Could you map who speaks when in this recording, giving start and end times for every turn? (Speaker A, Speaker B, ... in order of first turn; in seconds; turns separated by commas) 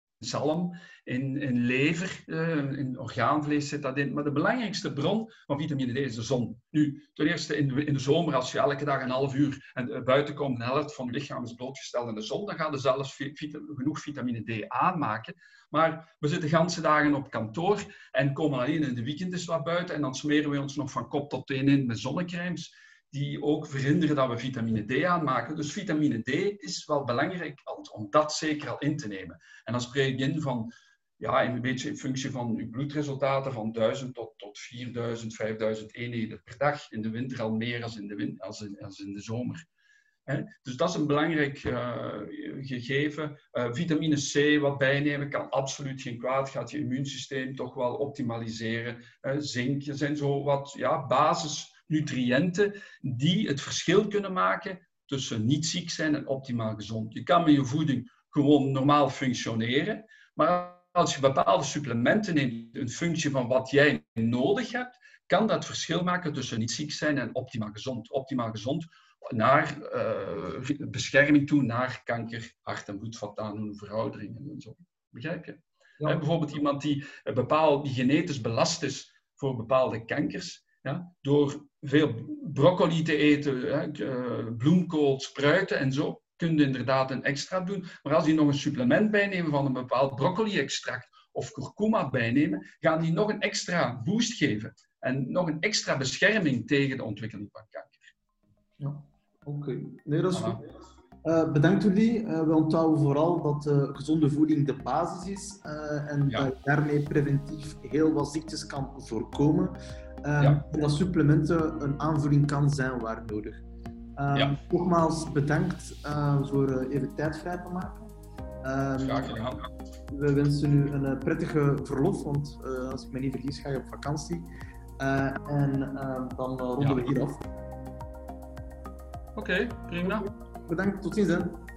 Speaker A: 0.2-39.6, Speaker A: 40.3-98.1, Speaker B: 98.8-100.6, Speaker A: 100.3-100.6, Speaker B: 101.2-113.6, Speaker B: 114.2-119.3, Speaker A: 119.0-119.7, Speaker B: 120.1-124.5, Speaker B: 125.0-127.4, Speaker A: 129.3-130.3, Speaker B: 130.2-131.7